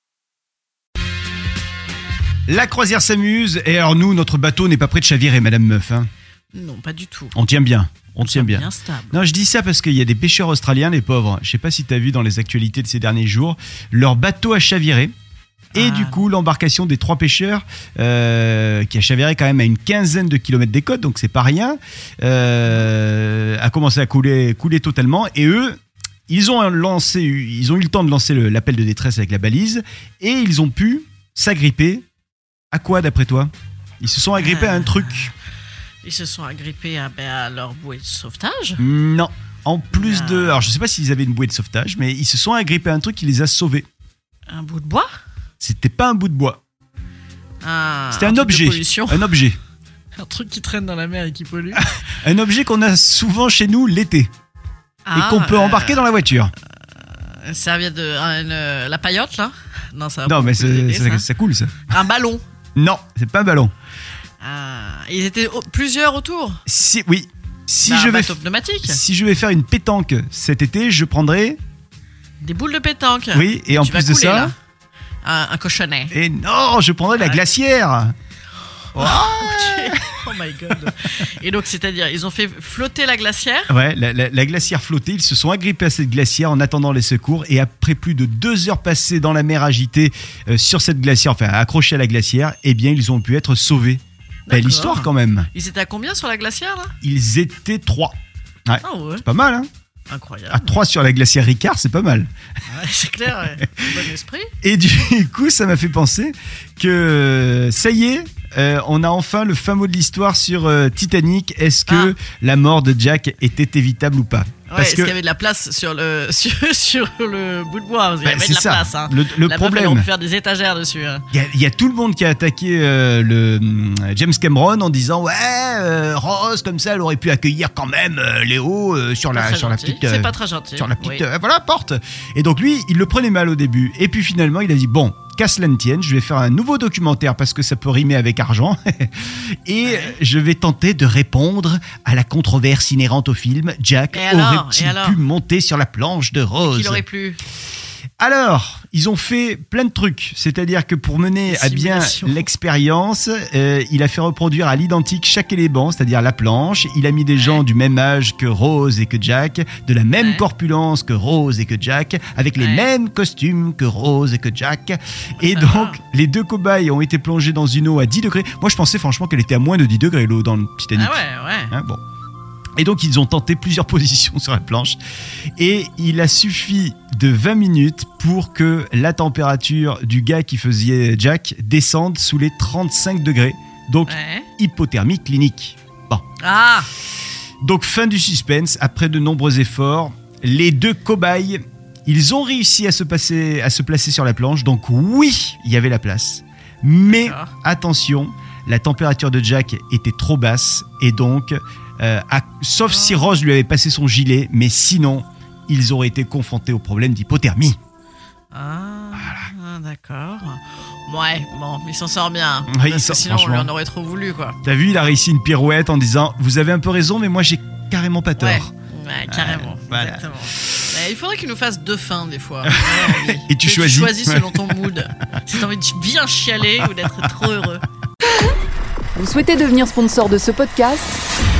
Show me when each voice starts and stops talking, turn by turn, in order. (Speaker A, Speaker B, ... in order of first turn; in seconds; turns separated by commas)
Speaker A: 2.5-6.1, Speaker B: 6.5-7.3, Speaker A: 7.3-15.1, Speaker B: 8.2-9.2, Speaker B: 15.7-16.3, Speaker A: 15.7-32.0, Speaker A: 32.7-35.3, Speaker B: 34.4-35.3, Speaker B: 36.0-38.8, Speaker A: 38.8-43.9, Speaker B: 39.9-40.7, Speaker B: 44.5-45.1, Speaker A: 45.6-46.6, Speaker B: 47.6-49.4, Speaker A: 48.1-49.6, Speaker B: 50.2-51.9, Speaker A: 51.8-54.3, Speaker B: 55.0-56.1, Speaker A: 55.1-56.5, Speaker B: 57.4-61.2, Speaker A: 60.2-61.8, Speaker B: 61.9-62.4, Speaker A: 62.8-63.7, Speaker B: 64.4-66.6, Speaker A: 66.7-71.6, Speaker B: 67.8-69.0, Speaker B: 72.4-74.5, Speaker A: 73.3-74.5, Speaker B: 75.2-76.1, Speaker A: 76.1-78.1, Speaker B: 77.1-77.4, Speaker A: 78.9-80.2, Speaker B: 78.9-83.7, Speaker A: 83.7-95.5, Speaker B: 94.5-96.9, Speaker A: 97.0-98.1, Speaker A: 98.7-99.7, Speaker B: 98.8-99.2, Speaker B: 100.1-100.8, Speaker A: 100.5-102.3, Speaker B: 102.7-104.5, Speaker A: 104.6-115.1, Speaker B: 111.9-112.1, Speaker B: 114.7-121.2, Speaker A: 118.2-120.1, Speaker A: 121.3-147.0, Speaker B: 129.3-131.2, Speaker B: 139.8-140.2, Speaker B: 144.1-145.2, Speaker B: 146.6-147.4, Speaker A: 148.2-172.0, Speaker B: 151.4-152.5, Speaker B: 157.3-157.6, Speaker B: 160.2-160.4, Speaker B: 162.6-162.9, Speaker B: 165.4-166.0, Speaker B: 170.9-171.7, Speaker A: 172.8-175.0, Speaker A: 175.6-186.2, Speaker B: 184.1-184.5, Speaker B: 186.4-186.9, Speaker A: 187.6-207.8, Speaker B: 197.1-197.5, Speaker B: 202.9-203.3, Speaker B: 208.5-214.6, Speaker A: 209.2-209.5, Speaker A: 212.7-213.7, Speaker A: 214.6-218.7, Speaker B: 218.4-227.8, Speaker A: 219.3-220.3, Speaker A: 222.7-224.7, Speaker C: 229.1-231.2